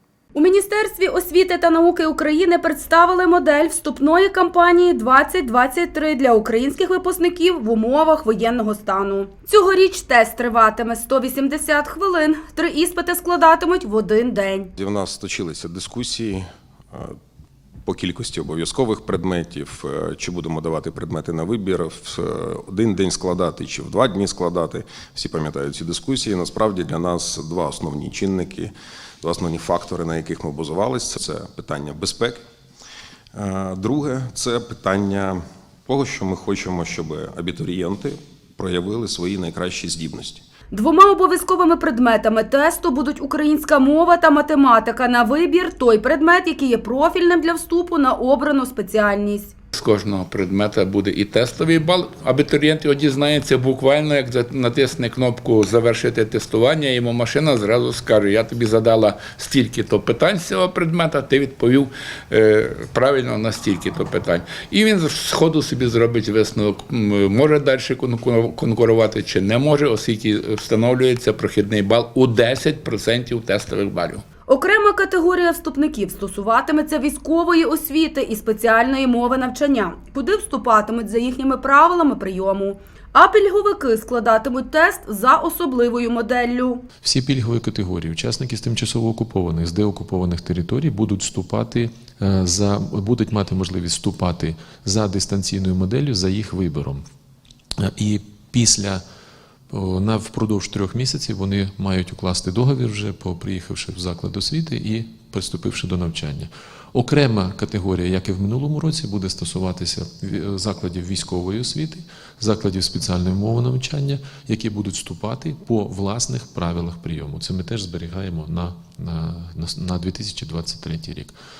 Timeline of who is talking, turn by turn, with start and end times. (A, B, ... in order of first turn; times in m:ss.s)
0:00.3-0:14.7 A
0:14.8-0:17.2 B
0:17.8-0:32.4 B
0:33.3-0:40.4 B
0:40.7-0:49.5 A
0:49.7-1:14.2 C
1:14.5-1:26.8 A
1:27.0-1:37.0 D
1:37.8-1:39.0 D
1:39.7-2:01.3 D